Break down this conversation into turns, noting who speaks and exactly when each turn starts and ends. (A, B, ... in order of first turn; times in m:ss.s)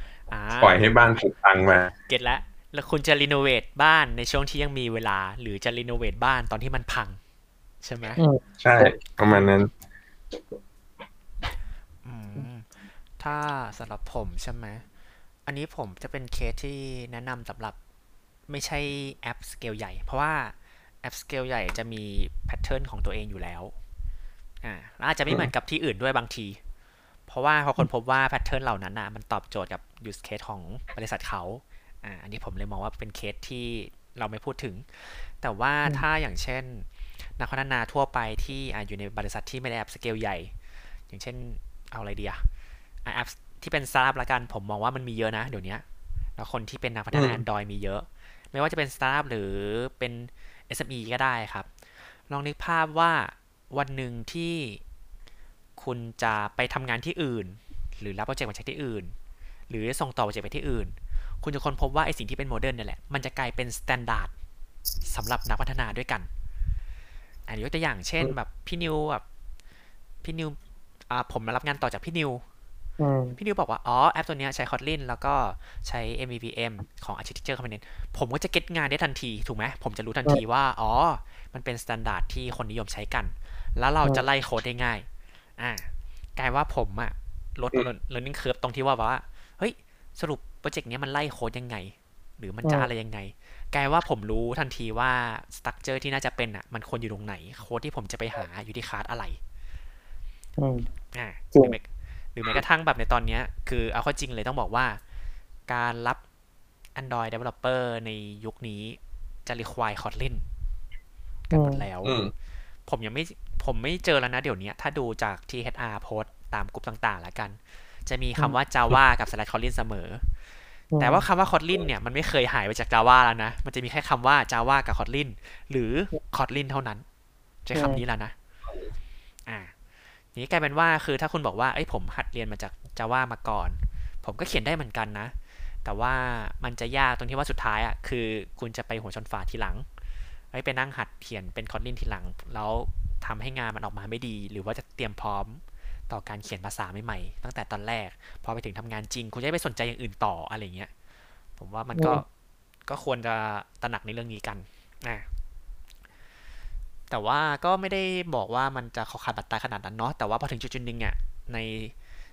0:00.3-0:00.9 A
0:00.6-0:01.9 B
0:02.1-0:07.2 A
0:07.8-0:08.2 A
0:08.2-0:08.9 C
0:08.6-0:09.7 B
0:12.0-0:14.9 A
0:15.5-0:17.8 A
0:18.5-0:23.7 A
0:24.6-0:26.6 A
0:27.3-0:40.5 A
0:41.1-0:42.4 A
0:43.0-0:45.8 A
0:46.4-0:51.7 A
0:47.1-0:47.4 B
0:52.3-0:54.8 A
0:55.8-0:59.1 A
0:59.7-1:04.3 A
1:05.0-1:06.3 A
1:07.5-1:09.2 A
1:10.2-1:10.6 A
1:11.1-1:12.4 A
1:13.0-1:13.4 C
1:13.4-1:25.1 A
1:25.6-1:39.4 A
1:40.6-1:40.9 C
1:41.1-1:45.0 A
1:45.7-1:46.2 A
1:47.0-1:50.5 A
1:51.5-1:52.2 A
1:51.5-1:51.8 C
1:52.0-1:52.3 B
1:52.9-2:00.3 A
2:00.9-2:01.2 C
2:01.0-2:07.0 A
2:07.6-2:08.3 A
2:07.8-2:08.0 C
2:09.5-2:09.7 A
2:10.3-2:15.3 A
2:15.8-2:19.9 A
2:20.5-2:30.9 A
2:31.6-2:32.3 A
2:32.0-2:32.2 C
2:32.9-2:35.3 A
2:37.1-2:42.0 A